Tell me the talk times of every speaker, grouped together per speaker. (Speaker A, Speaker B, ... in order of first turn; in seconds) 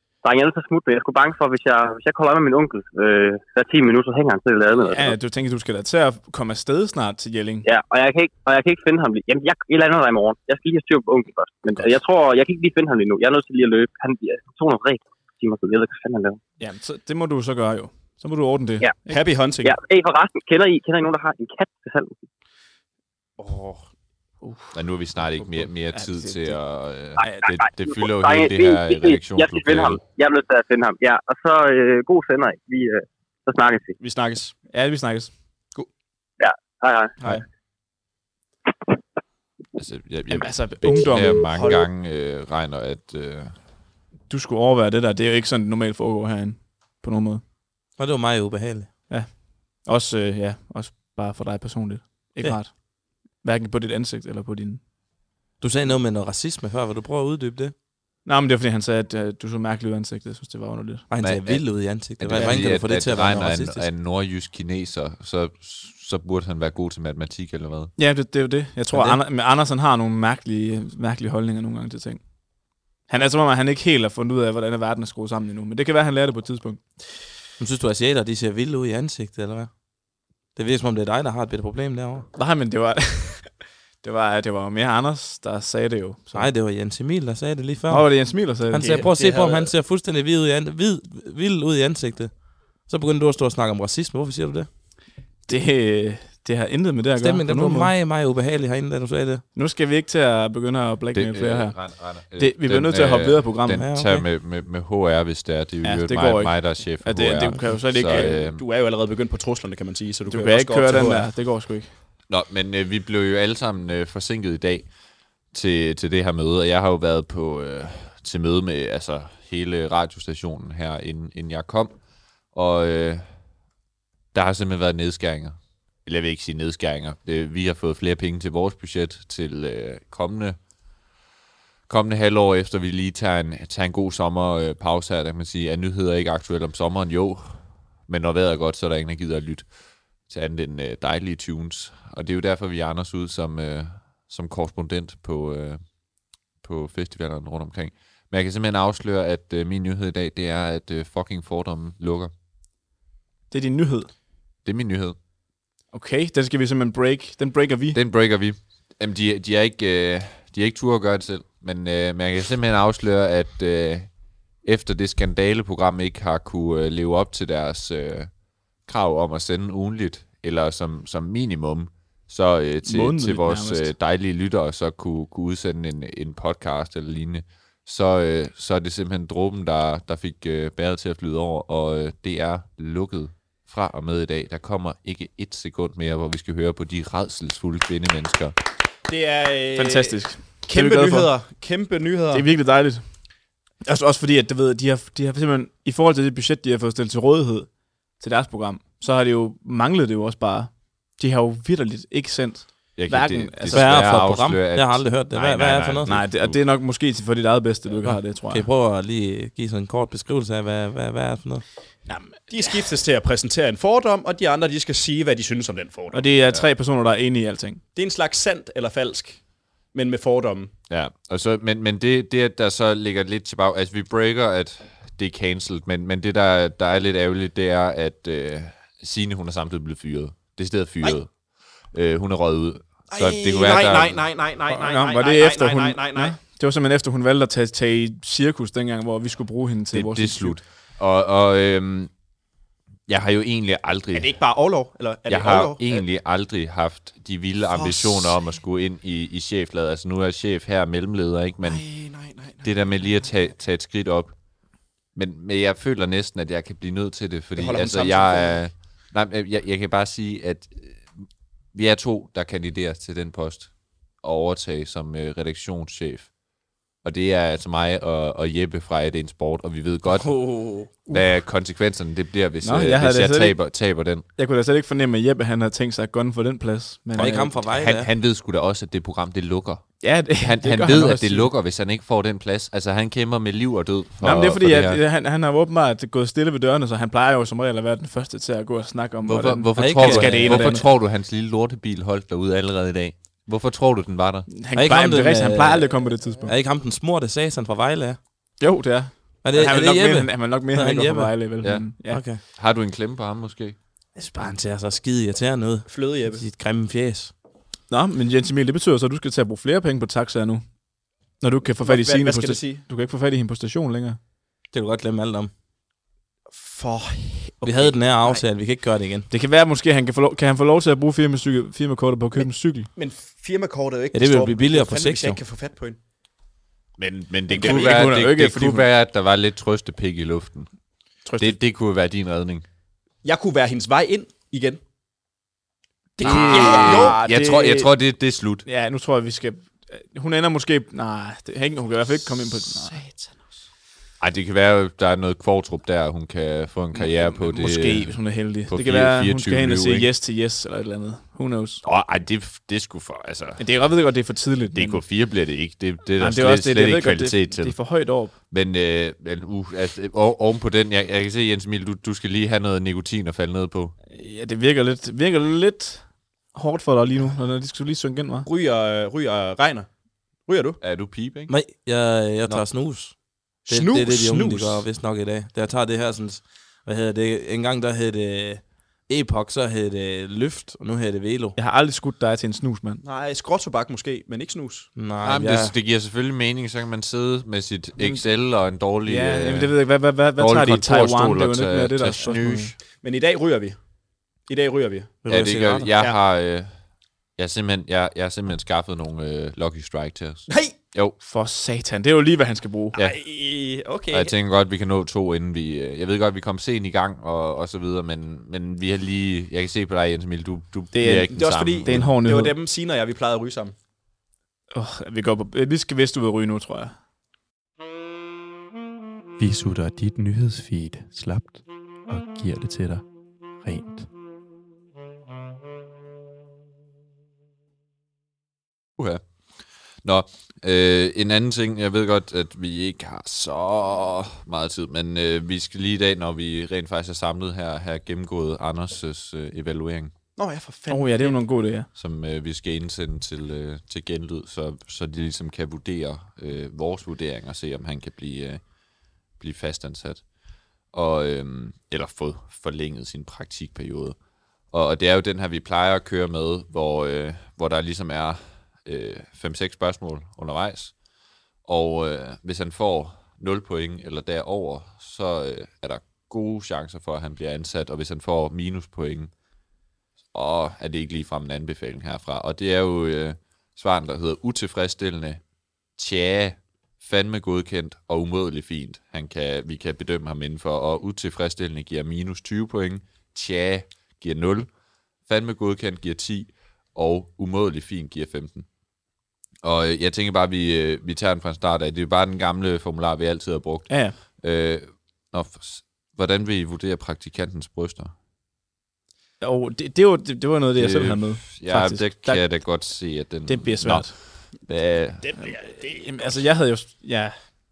Speaker A: 0.2-5.2, 7.6-16.4, 19.6-22.2, 27.2-34.0, 36.4-37.2
Speaker B: 4.9-7.6, 16.6-19.2, 24.4-24.7, 25.4-26.6, 34.7-35.3, 40.3-41.5, 44.3-47.4, 49.1-54.8, 58.2-61.1, 62.4-62.7, 68.0-72.2, 73.1-77.2, 82.3-86.5, 87.9-89.0, 95.5-97.9, 99.5-103.8, 105.8-108.3, 110.3-111.9, 153.5-154.1, 155.9-158.0, 172.8-173.9, 189.8-191.3, 192.3-193.0, 193.8-197.7, 198.2-204.2, 206.0-208.7, 212.1-212.8, 216.1-217.8, 234.7-240.6, 272.6-273.6, 274.4-277.6, 280.0-281.5, 284.2-290.9, 294.5-296.6, 298.6-302.2, 307.9-310.6, 311.4-314.2, 319.3-322.9, 327.5-328.9, 331.2-331.6, 336.2-337.9, 338.6-342.9, 346.9-351.8, 353.6-355.0, 356.2-358.3, 364.1-368.5, 381.6-383.0, 388.0-388.2, 389.0-392.7, 401.2-402.9, 410.9-412.5, 414.7-416.9, 440.9-441.9, 493.9-494.2, 499.4-502.5, 503.4-504.1, 505.4-507.4
Speaker C: 19.1-19.8, 23.4-23.9, 34.0-34.5, 41.5-41.9, 88.8-89.7, 108.0-111.3, 189.1-192.5, 212.5-216.3, 217.9-220.7, 233.1-236.4, 244.1-246.0, 247.7-248.4, 251.6-253.4, 257.6-258.6, 305.9-306.4, 311.8-312.8, 316.5-318.4, 322.9-326.0, 327.6-327.9, 333.2-334.8, 336.2-337.2, 342.9-343.4, 368.4-369.9, 370.4-370.8, 373.7-374.9, 383.0-384.9, 393.0-393.8, 394.5-395.2, 400.5-400.7, 402.9-404.3, 411.3-413.7, 440.4-441.4, 505.2-506.4
Speaker D: 24.7-30.0, 39.8-43.5, 61.2-67.9, 101.1-108.6, 112.3-114.9, 115.5-121.9, 122.5-123.3, 124.3-130.6, 131.9-139.7, 140.3-145.8, 146.6-152.3, 154.6-155.2, 157.9-164.1, 164.6-168.3, 168.8-188.5, 202.9-206.6, 220.9-234.2, 239.9-242.1, 243.1-244.3, 245.3-251.8, 252.6-254.3, 255.1-266.3, 267.0-270.4, 271.1-274.2, 277.7-285.0, 289.2-294.5, 301.6-303.8, 327.0-330.7, 331.4-332.6, 336.2-338.6, 344.2-350.1, 351.8-353.6, 354.7-357.8, 358.5-363.9, 370.8-371.5, 385.2-389.8, 390.4-392.8, 395.3-396.7, 397.4-401.1, 404.1-412.1, 429.0-429.2, 430.0-440.1, 441.9-448.6, 449.4-450.2, 450.9-454.2, 454.7-460.9, 461.6-469.3, 470.3-475.4, 476.0-484.7, 485.2-488.7, 489.6-498.1, 500.7-505.3
Speaker E: 48.0-48.9, 55.6-57.7, 61.1-63.9, 68.9-69.2, 77.6-79.8, 80.5-82.3, 86.3-94.7, 97.2-99.4, 103.8-104.2, 203.7-206.2, 208.0-211.6, 277.1-278.1, 289.8-290.8, 294.7-298.2, 299.4-301.5, 302.1-302.4, 304.1-307.3, 314.7-315.5, 317.6-319.3, 324.1-325.4, 371.5-381.6, 384.9-385.7, 395.2-395.9
Speaker F: 419.4-424.1